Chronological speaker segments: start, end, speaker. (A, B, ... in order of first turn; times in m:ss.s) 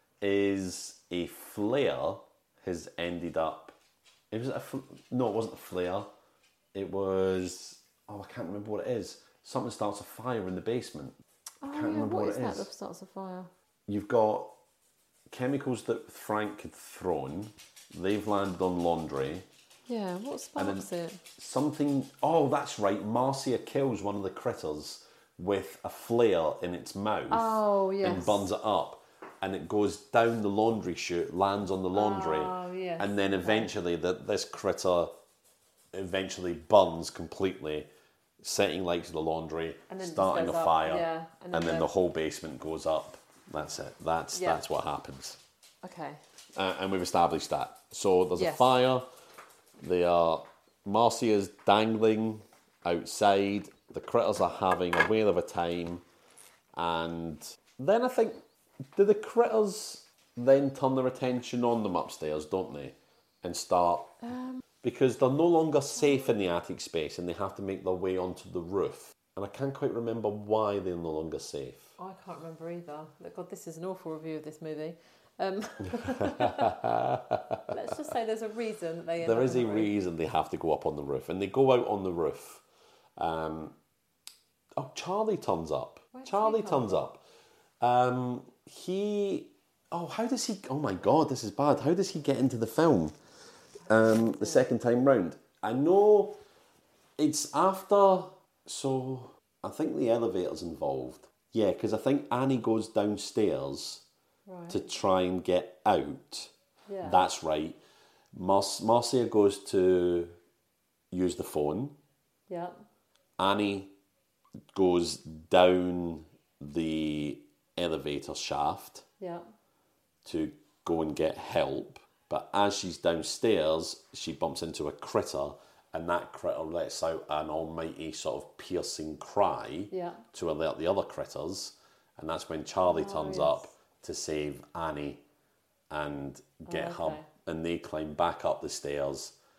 0:00.2-0:03.7 A
0:04.3-0:06.1 A
0:06.7-0:12.7 A
0:11.6-0:13.5 B
0:13.9-0:14.5 A
0:15.3-0:19.4 A
0:19.9-0:21.2 B
0:20.6-0:35.1 A
0:27.3-0:28.5 B
0:31.9-0:33.7 B
0:35.9-0:37.9 A
0:38.4-0:45.4 A
0:39.9-0:41.9 B
0:44.3-0:44.6 B
0:45.8-0:46.2 B
0:46.6-0:49.1 A
0:48.4-0:48.7 B
0:49.8-0:56.0 A
0:56.7-0:58.4 A
0:59.0-1:04.2 A
1:04.2-1:04.6 B
1:04.8-1:12.0 A
1:12.0-1:16.8 B
1:16.0-1:17.6 A
1:17.7-1:19.9 B
1:19.2-1:22.6 A
1:23.2-1:23.8 A
1:24.8-1:27.2 A
1:26.1-1:27.0 B
1:27.8-1:33.1 A
1:33.9-1:36.4 A
1:34.0-1:34.6 B
1:37.2-1:44.0 A
1:44.5-1:44.8 B
1:44.7-1:46.5 A
1:46.9-1:47.2 B
1:47.0-1:47.8 A
1:48.3-1:50.3 A
1:51.1-1:52.0 A
1:52.5-1:52.7 B
1:53.4-1:53.9 A
1:54.7-1:59.0 A
1:59.2-1:59.4 B
2:00.2-2:15.2 A
2:09.9-2:10.2 B
2:12.8-2:13.7 B
2:15.9-2:19.3 A
2:16.7-2:17.3 B